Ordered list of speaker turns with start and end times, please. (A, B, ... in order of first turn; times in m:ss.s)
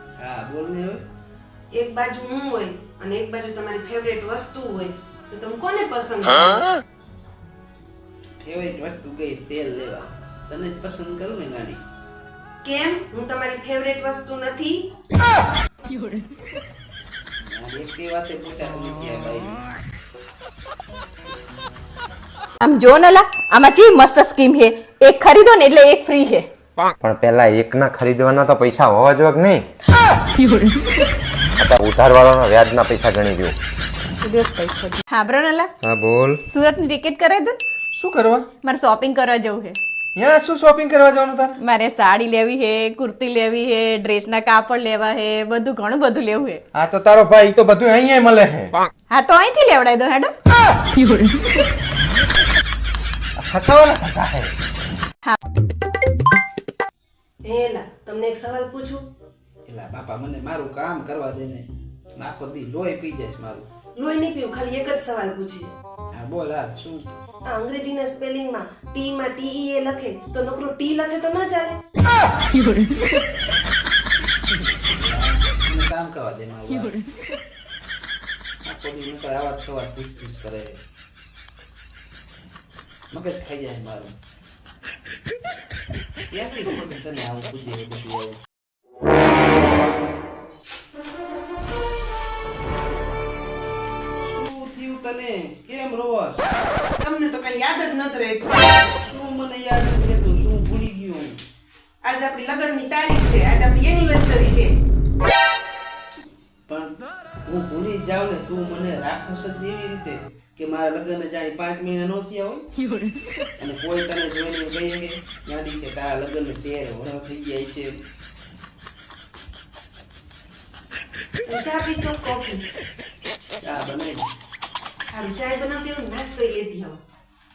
0:00.2-0:01.0 A
0:01.7-0:06.7 B
0:08.4-0:11.8 A
0:12.6-0:14.8 B
0:15.9-0:16.2 C
0:17.4-0:19.6 A
0:22.6-0:26.5 C
0:27.0-0:29.6 D
0:30.4-0:30.9 C
0:31.6-0:33.6 D
0:34.2-0:35.7 C
0:35.8-0:36.4 D
0:36.5-0:37.6 C
0:37.9-0:38.5 E
0:38.6-0:39.8 C
0:40.2-0:41.6 E
0:41.6-0:46.6 C
0:46.8-0:48.7 E
0:49.1-0:50.3 C
0:50.9-0:51.6 C
0:53.4-0:54.5 E
0:57.4-0:59.0 B
0:59.7-1:03.7 A
1:04.0-1:05.8 B
1:06.1-1:07.1 A
1:07.4-1:11.8 B
1:12.5-1:13.1 C
1:14.8-1:17.0 A
1:18.6-1:20.8 A
1:23.1-1:24.1 A
1:26.3-1:28.4 A
1:34.2-1:36.5 A
1:37.0-1:38.7 B
1:39.0-1:41.4 A
1:42.0-1:44.7 B
1:46.7-1:46.9 A
1:47.4-1:52.7 A
1:53.6-1:58.0 A
2:01.4-2:02.6 B
2:03.6-2:04.2 A
2:05.1-2:07.0 B